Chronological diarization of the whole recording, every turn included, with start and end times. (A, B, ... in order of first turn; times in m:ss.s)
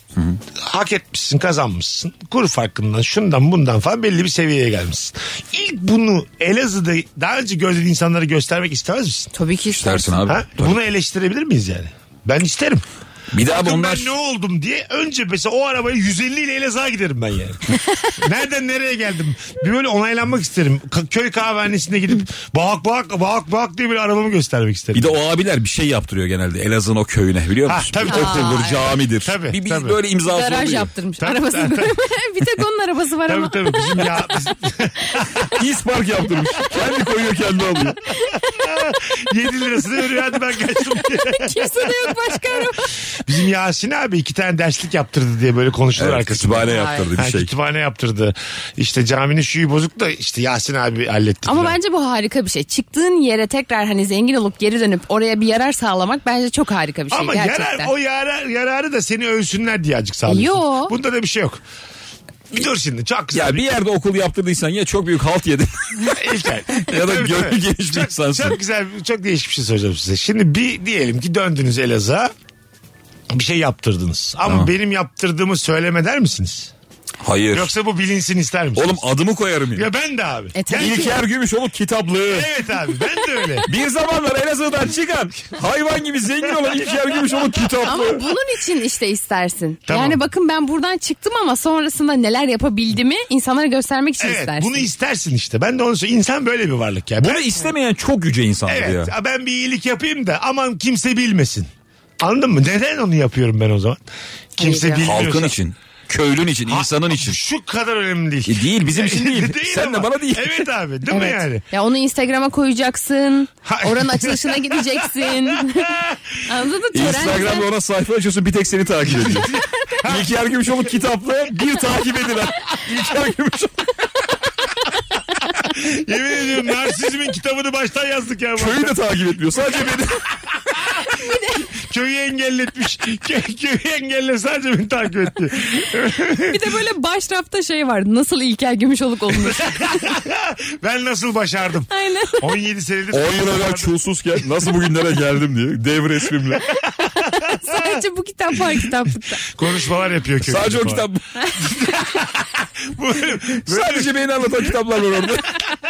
0:00.1-0:00.4 A
0:00.6-0:09.3 B
0:09.3-0:10.2 C
0:09.7-0:10.8 A
0:10.3-0:12.8 B
0:13.3-0:14.1 A
0:13.4-0:17.6 B
0:18.2-0:25.2 B
0:24.9-0:30.9 A
0:27.6-0:30.0 B
0:28.0-0:28.9 C
0:30.2-0:34.3 C
0:31.2-0:31.9 B
0:33.3-0:35.4 B
0:35.5-0:38.0 A
0:38.5-0:42.2 B
0:41.0-0:42.9 C
0:43.2-0:51.8 B
0:46.0-0:47.5 A
0:46.6-0:47.1 C
0:51.4-0:57.9 C
0:57.1-1:01.6 B
1:00.3-1:00.9 C
1:02.5-1:03.7 B
1:03.3-1:06.2 A
1:06.1-1:12.3 B
1:06.8-1:08.6 A
1:13.3-1:16.7 B
1:14.4-1:14.7 A
1:17.2-1:17.7 A
1:17.5-1:19.0 B
1:18.8-1:19.9 A
1:19.7-1:21.2 B
1:20.5-1:21.2 C
1:20.7-1:22.5 A
1:22.2-1:23.7 B
1:23.6-1:28.2 A
1:26.7-1:27.2 B
1:27.8-1:34.9 C
1:29.9-1:30.2 B
1:34.2-1:37.6 B
1:37.2-1:39.1 A
1:38.6-1:44.0 B
1:44.6-1:45.5 B
1:44.6-1:45.0 C
1:45.0-1:47.4 A
1:46.6-1:51.6 B
1:48.4-1:50.6 A
1:51.1-1:57.7 C
1:53.6-1:56.2 B
1:56.9-1:59.5 A
1:59.0-2:00.3 B
2:00.0-2:03.9 A
2:05.6-2:09.0 B
2:08.6-2:10.2 A
2:11.2-2:11.7 C
2:11.7-2:16.6 B
2:16.5-2:20.1 C
2:19.4-2:23.9 B
2:21.9-2:22.5 C
2:23.1-2:26.7 A
2:27.2-2:29.5 C
2:27.3-2:28.0 B
2:29.4-2:31.1 B
2:30.4-2:31.2 A
2:31.6-2:34.7 B
2:33.6-2:35.6 A